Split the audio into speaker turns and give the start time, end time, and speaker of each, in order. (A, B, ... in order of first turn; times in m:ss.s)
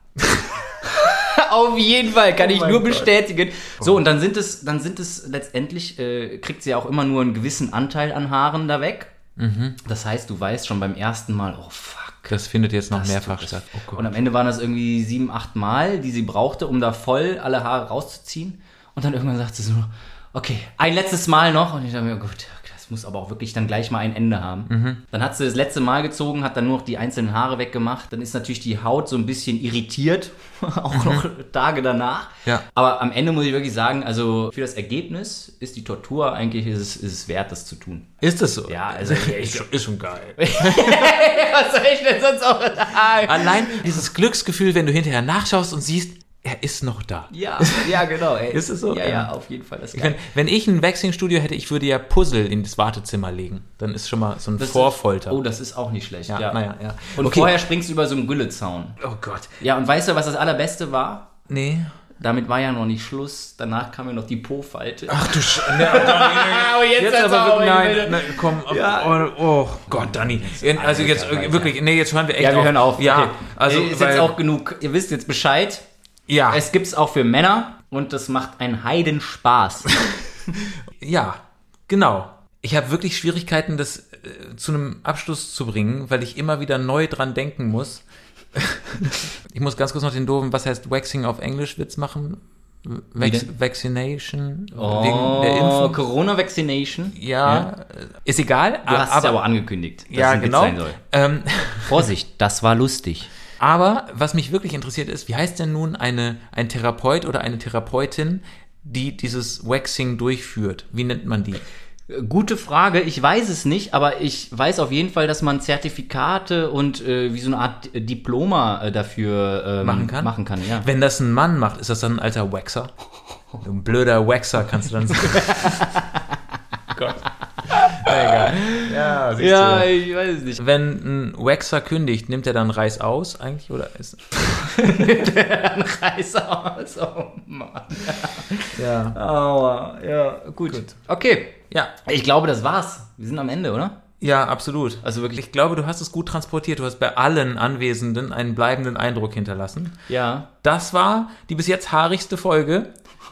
0:00.2-0:00.7 A
0:00.8-0:09.1 B
0:02.4-0:03.1 A
0:09.4-0:09.8 A
0:09.8-0:12.4 B
0:12.3-0:14.1 A
0:12.9-0:38.1 B
0:24.7-0:25.0 A
0:30.9-0:31.2 A
0:38.2-0:41.1 A
0:38.7-0:39.7 B
0:40.4-0:44.1 B
0:43.2-0:49.3 A
0:47.3-0:50.2 B
0:49.9-0:55.4 A
0:54.6-0:56.6 B
0:56.3-0:57.6 A
0:57.2-0:59.0 B
0:59.0-0:59.6 A
0:59.6-1:01.3 B
1:01.5-1:01.9 A
1:02.2-1:11.8 B
1:05.1-1:14.4 A
1:12.4-1:15.8 B
1:16.3-1:16.6 A
1:16.5-1:19.9 B
1:21.0-1:28.0 A
1:28.6-1:36.0 A
1:33.2-1:33.5 B
1:34.8-1:37.7 B
1:37.2-1:39.4 A
1:38.9-1:41.0 B
1:40.1-1:42.0 A
1:41.9-1:43.3 B
1:43.6-1:51.6 A
1:52.1-2:00.9 B
1:59.8-2:02.9 A
2:03.6-2:05.8 A
2:05.1-2:06.2 B
2:07.0-2:09.9 A
2:07.7-2:10.6 B
2:10.6-2:15.0 A
2:14.7-2:24.0 B
2:18.8-2:19.2 A
2:20.7-2:21.0 A
2:24.2-2:30.0 A
2:25.0-2:25.4 B
2:30.1-2:30.5 B
2:30.6-2:32.9 A